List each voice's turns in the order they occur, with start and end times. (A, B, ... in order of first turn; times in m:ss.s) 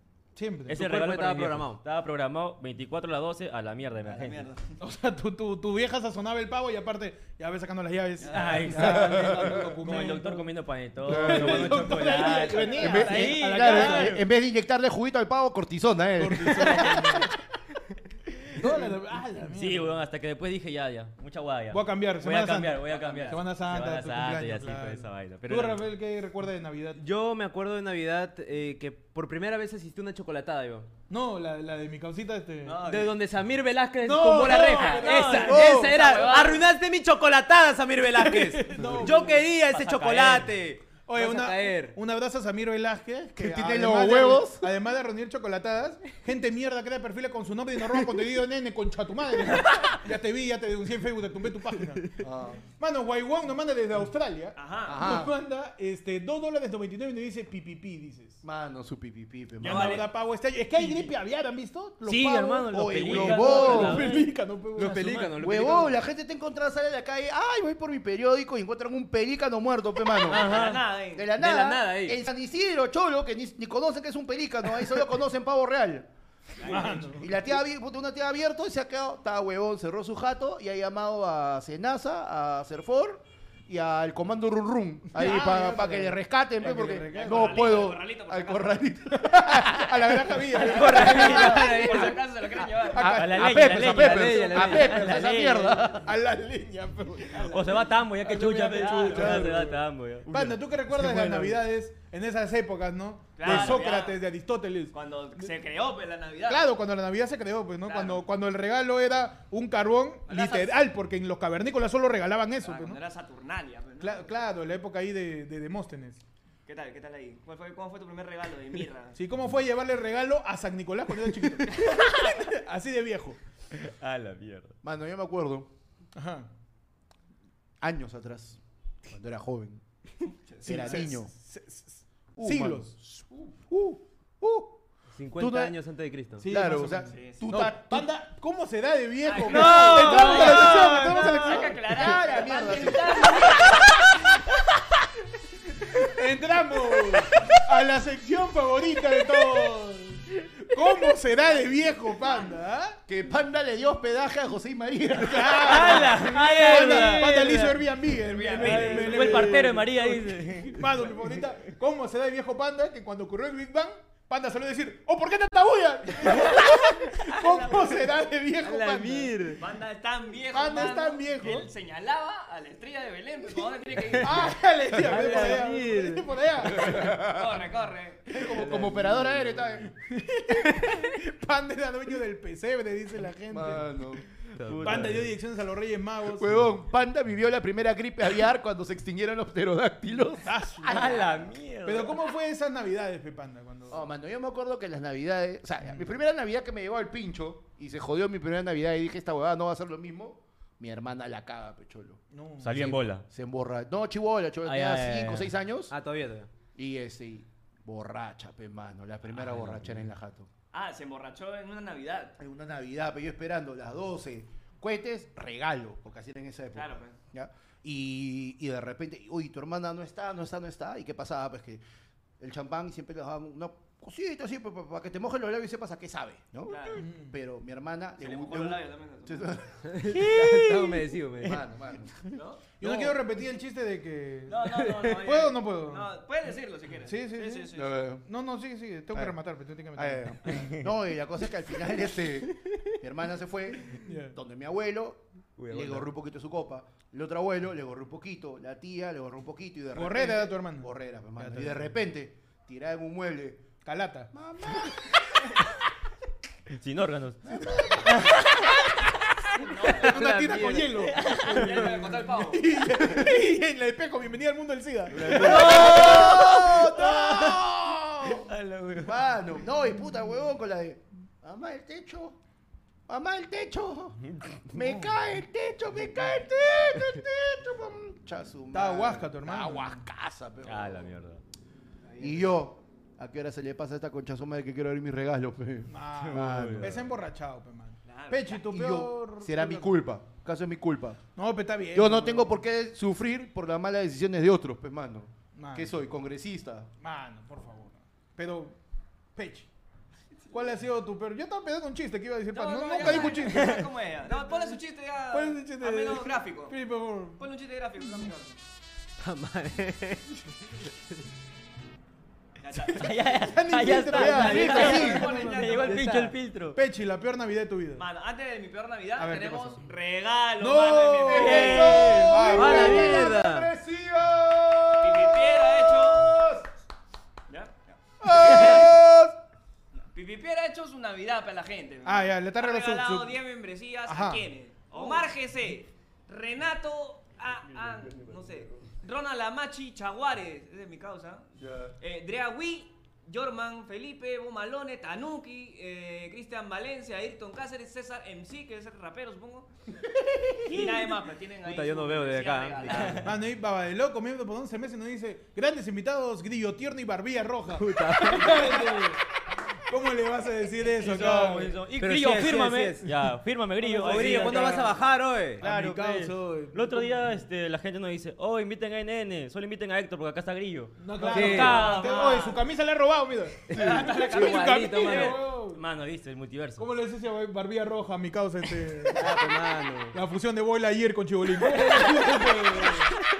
0:00.3-0:00.8 A
0:00.7-0:04.5 B
0:00.7-0:01.8 C
0:04.0-0:04.6 D
0:04.8-0:10.5 A
0:08.2-0:08.8 D
0:08.3-0:14.2 B
0:08.7-0:09.8 E
0:11.0-0:14.2 A
0:11.0-0:11.8 E
0:12.7-0:17.3 E
0:16.2-0:17.3 A
0:18.5-0:20.0 A
0:19.5-0:25.9 B
0:21.7-0:27.0 A
0:22.9-0:23.4 D
0:27.0-0:30.9 C
0:31.1-0:32.8 A
0:32.6-0:33.2 D
0:32.8-0:42.0 C
0:34.0-0:36.3 A
0:34.8-0:35.7 B
0:35.4-0:36.0 E
0:35.8-0:36.6 D
0:38.2-0:39.5 A
0:39.9-0:40.4 B
0:41.0-0:52.2 A
0:43.4-0:44.7 E
0:52.2-0:52.6 E
0:52.8-0:58.4 A
0:54.6-0:55.2 D
0:54.8-0:55.3 E
0:58.4-1:00.0 E
0:59.6-1:00.1 D
0:59.6-1:05.1 A
1:00.8-1:01.1 D
1:02.0-1:05.4 B
1:02.7-1:04.1 E
1:04.8-1:06.0 C
1:05.4-1:10.5 E
1:10.2-1:10.8 B
1:10.3-1:11.4 D
1:11.1-1:16.1 E
1:11.4-1:12.2 C
1:16.6-1:17.1 D
1:16.6-1:17.3 A
1:17.2-1:30.4 E
1:25.1-1:27.6 A
1:26.9-1:28.8 D
1:29.1-1:34.6 A
1:30.6-1:31.8 B
1:30.8-1:33.2 D
1:30.8-1:32.2 C
1:33.0-1:36.1 E
1:33.0-1:35.8 B
1:33.7-1:35.1 C
1:35.9-1:44.9 A
1:37.3-1:39.4 D
1:37.5-1:41.6 B
1:39.2-1:39.6 E
1:43.4-1:44.2 D
1:43.5-1:43.7 E
1:44.9-1:46.6 D
1:46.5-1:53.0 A
1:47.8-1:48.2 D
1:50.3-1:50.7 D
1:52.6-1:54.3 D
1:54.0-1:56.2 A
1:56.6-1:59.2 D
1:59.2-2:03.4 A
2:03.7-2:04.8 B
2:04.8-2:05.7 E
2:06.1-2:06.5 A
2:07.8-2:09.8 E
2:10.5-2:11.1 D
2:10.6-2:11.3 E
2:10.6-2:12.9 A
2:12.4-2:14.8 E
2:15.1-2:16.4 C
2:15.4-2:15.7 E
2:16.4-2:21.9 A
2:16.4-2:18.1 E
2:17.1-2:17.4 D
2:19.2-2:24.0 D
2:19.4-2:21.7 B
2:20.0-2:20.7 C
2:21.8-2:23.8 E
2:25.9-2:33.0 A
2:31.5-2:32.6 D
2:33.1-2:36.2 E
2:35.2-2:49.3 A
2:35.6-2:37.7 B
2:36.1-2:37.8 C
2:38.1-2:39.8 D
2:38.6-2:39.9 C
2:38.7-2:41.0 B
2:47.4-2:47.9 D
2:48.6-2:49.6 C
2:49.6-2:54.5 D
2:50.5-2:51.7 A
2:54.2-2:57.0 A
2:54.9-2:56.3 C
2:56.6-2:57.6 E
2:56.7-2:58.3 D
2:58.3-2:59.9 E
2:58.4-2:59.2 C
3:00.0-3:03.9 A
3:03.5-3:04.2 E
3:04.6-3:05.2 C
3:04.6-3:05.3 B
3:04.8-3:06.7 A
3:06.2-3:11.4 E
3:10.4-3:11.3 A
3:10.8-3:12.2 B
3:11.8-3:14.1 A
3:13.9-3:22.2 E
3:22.3-3:22.9 A
3:22.6-3:23.2 B
3:22.7-3:25.9 E
3:24.6-3:25.4 B
3:24.8-3:25.2 C
3:25.9-3:26.5 C
3:26.7-3:30.5 E
3:29.4-3:30.0 B
3:30.7-3:32.4 D
3:32.4-3:41.8 E
3:36.7-3:37.2 D
3:42.4-3:49.9 E
3:46.6-3:47.0 D
3:47.0-3:47.3 A
3:48.2-3:49.6 D
3:49.8-3:51.6 C
3:50.1-3:51.0 B
3:51.4-3:52.2 E
3:52.3-3:52.6 D
3:52.8-3:56.1 A
3:52.8-3:53.2 E
3:54.5-3:58.0 D
3:54.6-3:55.2 C
3:57.0-3:57.7 A
3:57.7-3:58.2 E
3:58.2-4:00.6 A
3:59.9-4:13.7 E
4:02.6-4:02.9 C
4:04.0-4:04.3 A
4:05.6-4:06.1 C
4:09.9-4:11.9 A
4:13.8-4:14.3 A
4:14.3-4:14.9 E
4:16.7-4:18.3 B
4:17.6-4:18.0 E
4:18.0-4:18.5 A
4:19.6-4:20.7 D
4:19.6-4:26.5 A
4:20.1-4:21.0 C
4:20.9-4:21.8 B
4:21.3-4:22.7 D
4:25.1-4:28.4 E
4:25.2-4:25.7 C
4:25.3-4:27.7 B
4:28.4-4:29.2 B
4:29.0-4:32.4 E
4:33.1-4:41.1 E
4:38.7-4:39.9 A
4:40.6-4:41.4 B
4:42.0-4:42.6 D
4:42.2-4:47.1 E
4:45.9-4:49.9 A
4:46.3-4:47.0 B
4:48.0-4:48.6 D
4:48.6-4:51.2 E
4:51.3-4:52.6 A
4:51.9-4:56.9 E
4:55.6-4:55.9 A
4:57.0-4:58.8 A
4:59.4-4:59.7 A
5:00.5-5:04.7 A
5:02.5-5:06.8 D
5:03.0-5:03.9 B
5:05.3-5:07.4 A
5:07.4-5:08.6 D
5:09.2-5:10.4 C
5:12.6-5:13.2 D
5:12.8-5:15.5 A
5:12.9-5:16.8 B
5:14.1-5:16.4 C
5:14.2-5:16.0 D
5:14.6-5:15.2 E
5:16.7-5:18.0 A
5:18.0-5:22.4 D
5:19.2-5:19.8 A
5:20.6-5:23.3 A
5:21.3-5:23.1 B
5:21.8-5:26.7 E
5:22.5-5:23.7 C
5:25.0-5:26.4 D
5:27.5-5:28.9 D
5:28.2-5:29.3 A
5:28.3-5:29.0 E
5:30.0-5:41.4 D
5:32.0-5:33.3 A
5:34.1-5:34.4 A
5:41.6-5:41.9 E
5:42.0-5:49.7 D
5:50.6-5:53.3 D
5:51.6-5:53.2 C
5:52.9-5:53.3 B
5:53.2-5:59.2 A
5:57.7-5:58.6 C
5:59.9-6:01.8 A
6:00.9-6:05.0 B
6:02.0-6:03.2 C
6:03.8-6:05.6 C
6:03.9-6:04.8 A
6:04.2-6:04.8 D
6:05.6-6:12.3 B
6:05.6-6:07.2 A
6:11.0-6:15.8 A
6:11.2-6:12.0 C
6:11.3-6:12.6 D
6:13.7-6:15.4 C
6:13.7-6:15.3 D
6:13.7-6:14.1 E
6:15.0-6:16.9 B
6:16.8-6:19.4 A
6:19.1-6:20.2 C
6:20.1-6:23.2 A
6:21.6-6:22.8 C